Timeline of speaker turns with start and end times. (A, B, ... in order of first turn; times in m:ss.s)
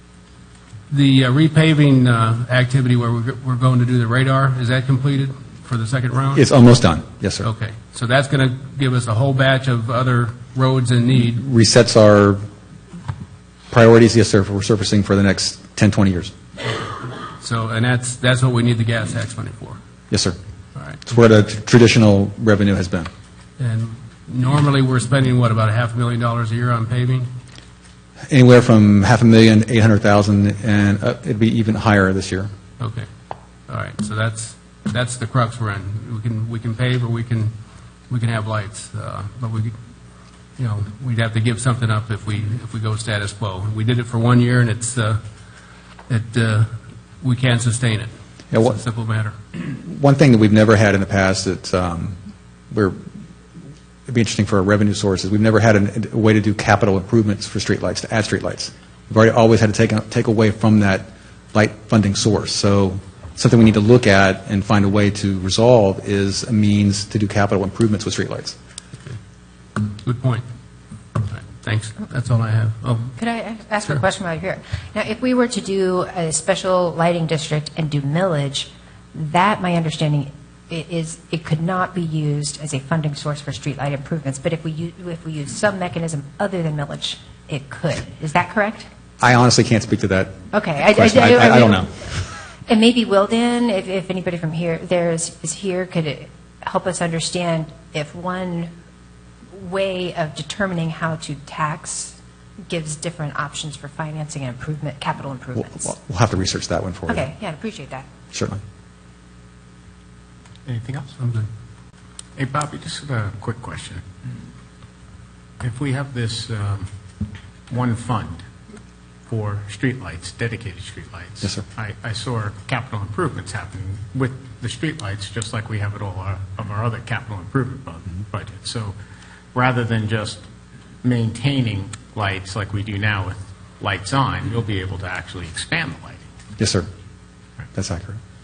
0:00.9-0:06.4 A
0:06.4-0:07.5 B
0:07.4-0:11.4 A
0:11.3-0:12.4 B
0:13.7-0:16.3 B
0:17.4-0:19.8 A
0:20.1-0:20.4 B
0:21.1-0:23.1 B
0:23.6-0:27.3 A
0:28.3-0:32.5 B
0:32.8-0:33.1 A
0:33.7-0:37.5 A
0:38.1-0:39.8 A
0:40.6-0:45.2 A
0:46.1-0:46.7 A
0:47.2-0:49.4 A
0:48.5-0:48.8 B
0:49.6-0:52.2 B
0:52.7-0:53.0 B
0:54.1-1:08.6 B
1:09.8-1:10.4 A
1:11.2-1:13.2 A
1:13.2-1:28.9 C
1:29.2-1:32.1 B
1:30.5-1:31.9 C
1:32.7-1:38.7 C
1:39.5-1:42.2 C
1:42.7-1:45.9 C
1:45.6-1:47.3 B
1:47.1-1:48.1 C
1:48.3-1:48.6 B
1:50.7-1:51.1 D
1:51.2-1:51.5 A
1:52.4-1:54.0 D
1:55.6-1:56.9 D
1:57.7-1:58.4 D
1:59.3-2:09.0 D
2:09.5-2:10.4 D
2:11.0-2:16.2 D
2:16.6-2:16.9 B
2:17.7-2:18.2 B